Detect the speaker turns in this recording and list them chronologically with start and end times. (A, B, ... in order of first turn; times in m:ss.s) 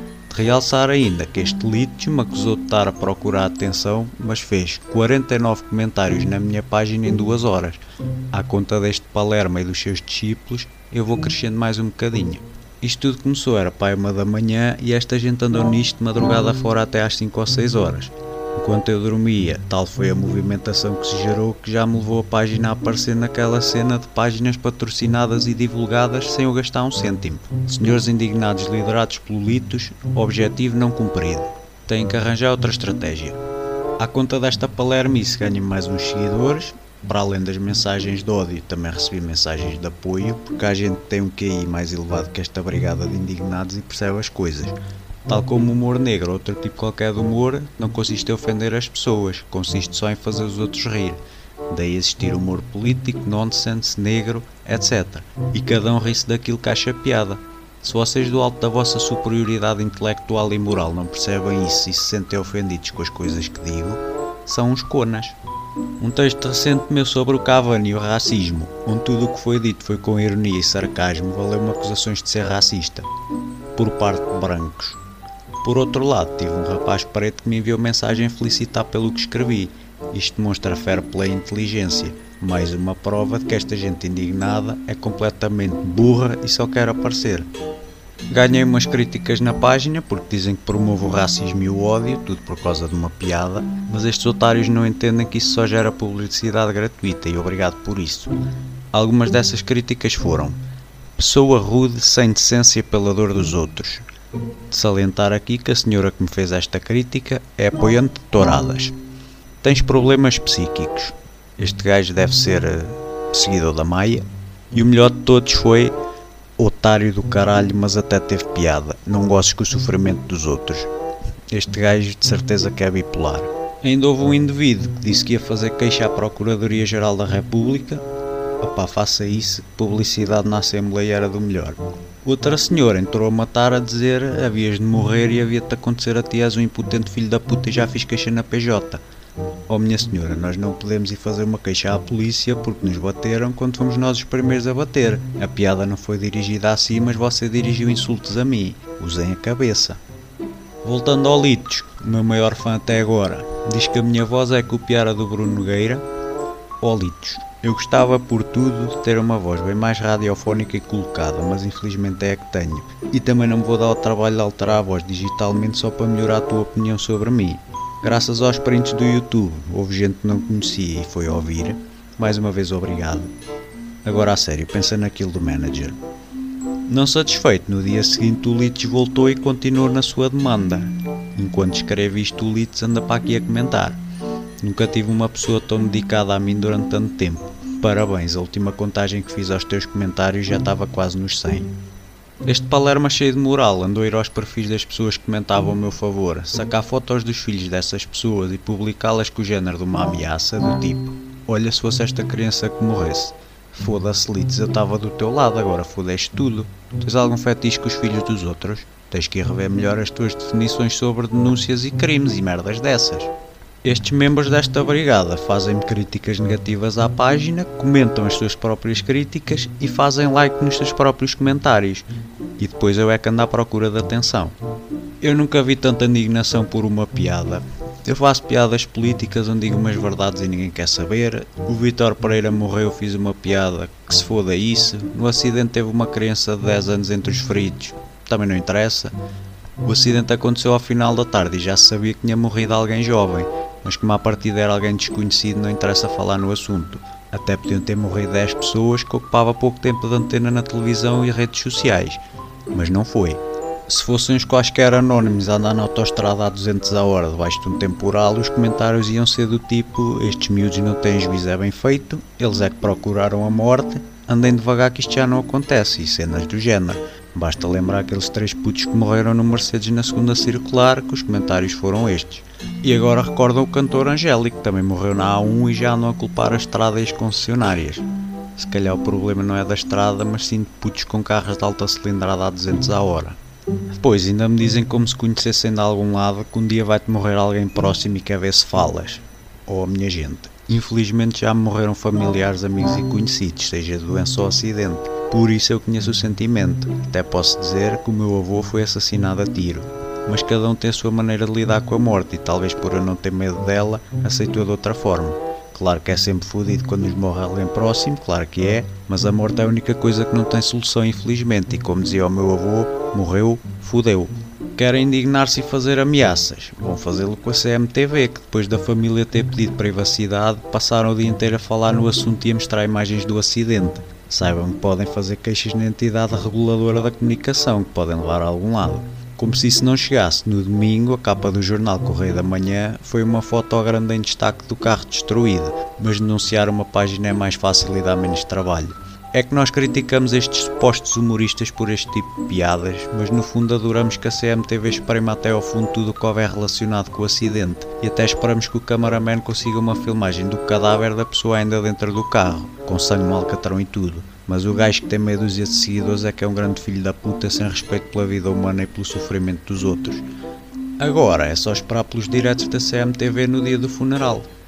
0:00.3-0:33.4 A
0:34.0-1:05.4 A
1:06.0-1:13.1 A
1:13.8-1:15.0 A
1:15.6-1:27.5 A
1:28.3-1:38.3 A
1:38.9-1:40.6 A
1:41.2-1:44.1 A
1:44.7-1:48.9 A
1:49.6-1:56.0 A
1:56.6-2:00.9 A
2:01.5-2:08.0 A
2:08.6-2:19.0 A
2:19.7-2:30.0 A
2:30.8-2:36.0 A
2:36.8-2:53.3 A
2:54.0-2:56.0 A
2:56.9-3:04.0 A
3:04.6-3:11.7 A
3:12.4-3:33.3 A
3:33.8-3:42.1 A
3:42.6-3:44.6 A
3:45.2-3:59.1 A
3:59.8-4:43.4 A
4:44.0-6:00.2 A
6:01.0-6:04.5 A